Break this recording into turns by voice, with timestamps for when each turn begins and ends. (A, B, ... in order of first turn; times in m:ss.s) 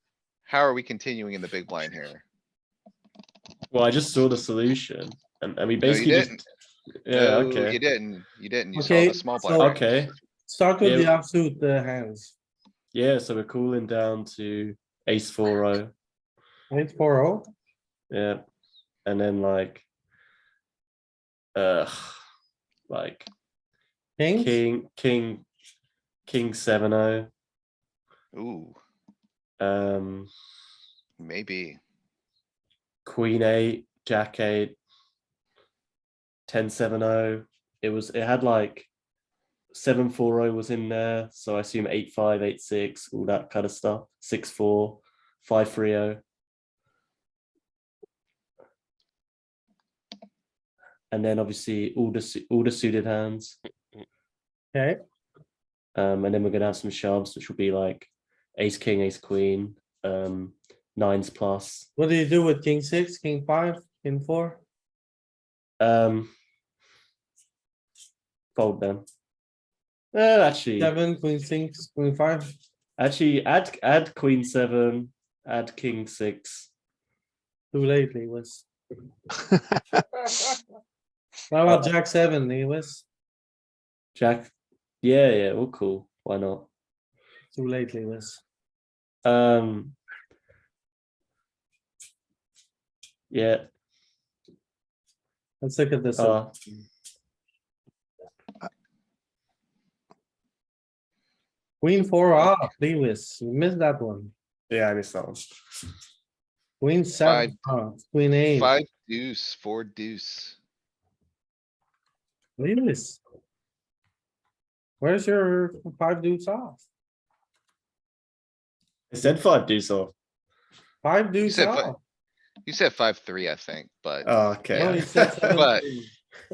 0:00.4-0:02.2 A
0:03.7-0:06.4 B
0:05.8-0:06.4 A
0:07.0-0:07.8 B
0:07.2-0:09.8 A
0:08.8-0:09.7 C
0:09.6-0:10.1 B
0:10.5-0:12.3 C
0:10.8-0:11.1 B
0:12.9-0:15.9 B
0:16.7-0:17.5 C
0:18.1-0:18.4 B
0:19.0-0:19.9 B
0:21.6-0:22.2 B
0:22.9-0:23.3 B
0:24.2-0:24.6 C
0:24.4-0:25.5 B
0:26.3-0:27.3 B
0:28.3-0:28.8 A
0:29.6-0:30.3 B
0:31.2-0:31.8 A
0:33.0-0:34.8 B
0:36.5-0:38.9 B
0:39.7-0:46.2 B
0:51.1-0:53.6 B
0:54.7-0:55.0 C
0:56.0-1:01.9 B
1:02.0-1:04.6 C
1:05.8-1:06.3 B
1:08.6-1:09.0 B
1:10.1-1:11.0 B
1:10.8-1:12.6 C
1:13.0-1:16.7 B
1:17.7-1:18.6 C
1:21.5-1:23.0 C
1:24.2-1:26.7 B
1:27.5-1:28.4 C
1:29.2-1:30.0 B
1:33.3-1:33.6 B
1:35.6-1:36.4 C
1:36.2-1:36.5 B
1:41.8-1:44.3 C
1:44.7-1:45.5 B
1:46.8-1:48.7 C
1:47.2-1:47.6 A
1:48.5-1:50.6 A
1:52.6-1:53.2 C
1:55.0-1:56.8 C
1:59.1-2:00.1 B
2:01.0-2:02.0 C
2:01.4-2:01.9 A
2:02.7-2:04.3 A
2:04.2-2:05.8 B
2:04.7-2:06.1 C
2:05.5-2:05.8 A